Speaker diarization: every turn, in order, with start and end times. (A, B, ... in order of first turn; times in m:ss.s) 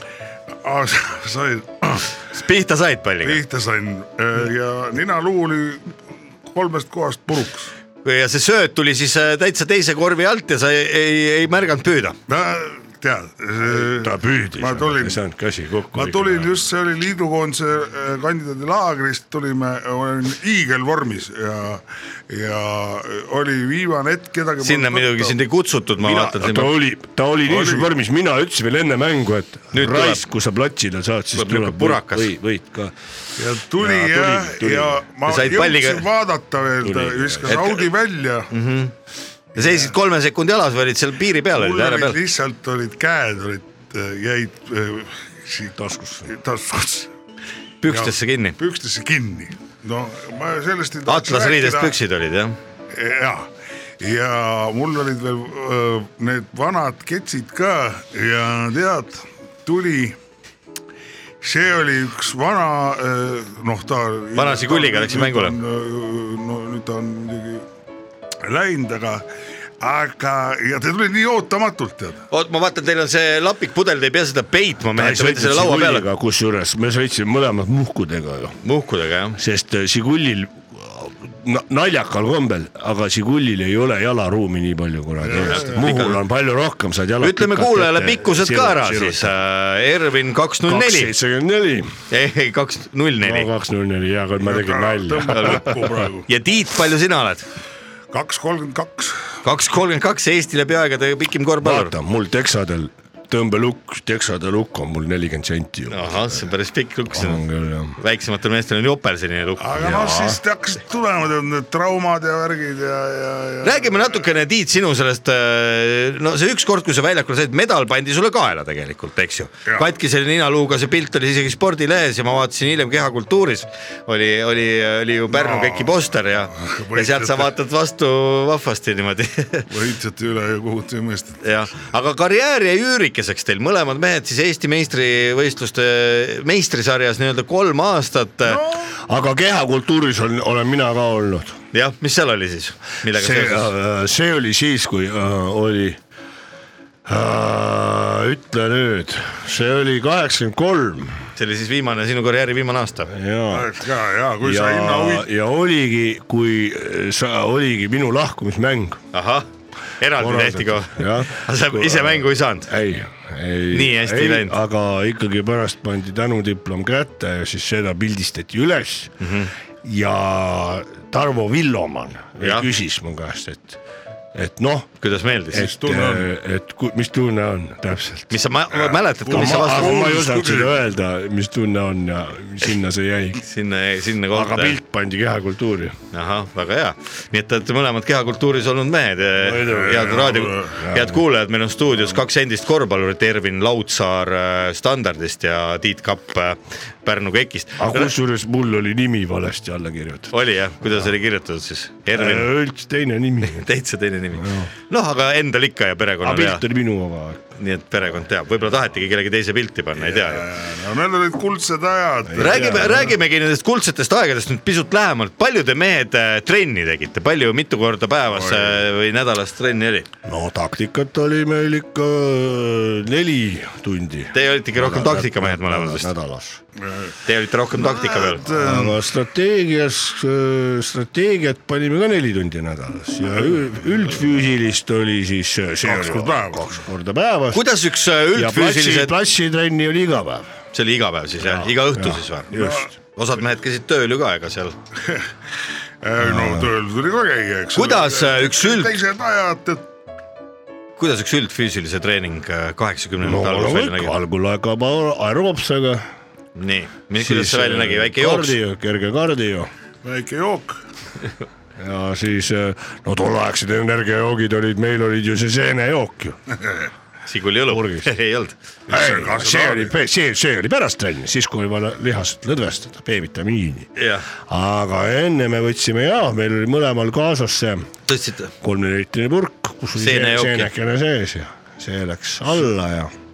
0:00.6-0:02.1 A
0:02.3-0:03.4 B
0:03.2-0:05.9 A
0:06.5-0:07.7 A
0:08.0-0:12.2 B
0:12.3-0:15.2 A
0:13.6-0:16.5 C
0:15.9-0:25.4 A
0:24.6-0:26.8 B
0:26.0-0:32.9 C
0:27.4-0:27.9 A
0:29.7-0:30.2 B
0:31.3-0:32.3 B
0:33.4-0:38.5 A
0:33.8-0:35.0 C
0:35.2-0:36.0 B
0:36.8-0:37.6 C
0:37.5-0:37.9 B
0:38.5-0:38.9 B
0:39.5-0:42.2 B
0:39.6-0:39.9 A
0:41.5-0:47.1 A
0:45.8-0:46.3 C
0:47.8-0:48.6 B
0:47.8-0:51.9 A
0:51.1-0:52.6 B
0:52.9-0:53.5 A
0:54.0-1:00.2 A
1:01.4-1:07.6 A
1:04.3-1:05.6 B
1:08.4-1:09.3 A
1:09.8-1:12.2 A
1:12.3-1:16.0 B
1:14.9-1:18.6 C
1:18.6-1:19.4 B
1:19.3-1:29.3 C
1:25.2-1:26.0 A
1:25.3-1:26.2 B
1:27.2-1:31.1 B
1:30.7-1:31.9 C
1:32.1-1:33.5 B
1:33.2-1:36.0 C
1:34.4-1:36.3 A
1:36.2-1:37.4 B
1:38.1-1:39.2 A
1:39.4-1:41.9 B
1:41.6-1:46.5 C
1:45.9-1:47.4 B
1:47.1-1:48.0 C
1:48.0-1:49.6 B
1:49.6-1:54.3 A
1:49.8-1:50.4 C
1:53.6-2:09.7 B
1:59.6-1:59.9 A
2:05.3-2:07.5 A
2:09.7-2:11.4 A
2:11.4-2:18.6 B
2:18.4-2:18.9 A
2:19.1-2:21.6 C
2:21.7-2:23.7 B
2:23.1-2:26.0 C
2:27.0-2:31.2 C
2:31.4-2:33.1 B
2:33.1-2:33.7 C
2:33.5-2:35.3 A
2:34.4-2:39.0 C
2:39.1-2:39.5 B
2:40.0-2:42.7 B
2:40.2-2:49.2 C
2:43.7-2:44.5 B
2:49.2-2:49.5 B
2:49.8-2:53.8 C
2:52.4-2:52.7 B
2:54.3-2:54.9 C
2:55.0-2:55.7 B
2:55.5-2:58.4 C
2:55.5-2:56.3 A
2:58.3-3:00.1 B
2:58.7-3:00.7 A
2:59.3-3:03.4 C
3:03.4-3:04.8 B
3:04.3-3:06.0 C
3:06.1-3:18.1 B
3:09.4-3:11.2 C
3:09.7-3:10.8 A
3:17.8-3:20.3 C
3:20.3-3:22.5 B
3:22.1-3:23.7 C
3:23.4-3:26.6 B
3:24.3-3:24.7 C
3:26.2-3:27.5 C
3:27.6-3:30.4 B
3:30.0-3:33.1 A
3:32.3-3:33.2 C
3:32.4-3:40.1 B
3:38.3-3:38.8 A
3:40.2-3:46.6 C
3:44.3-3:46.1 B
3:46.8-3:47.2 A
3:47.2-3:48.4 B
3:47.7-3:49.0 A
3:48.4-3:57.7 C
3:55.8-3:56.8 A
3:57.5-3:59.1 B
3:58.3-4:00.5 C
4:00.7-4:04.8 B
4:01.4-4:02.9 C
4:02.5-4:02.9 A
4:06.0-4:09.8 A
4:06.2-4:06.7 C
4:07.7-4:08.9 B
4:11.0-4:14.1 B
4:13.2-4:16.0 C
4:16.6-4:18.6 B
4:17.2-4:19.7 C
4:20.0-4:20.8 A
4:21.8-4:26.4 C
4:27.2-4:28.6 B
4:27.7-4:28.1 C
4:28.9-4:37.9 C
4:28.9-4:29.9 A
4:34.0-4:34.3 B
4:38.1-4:38.5 B
4:38.6-4:43.1 C
4:40.0-4:40.7 B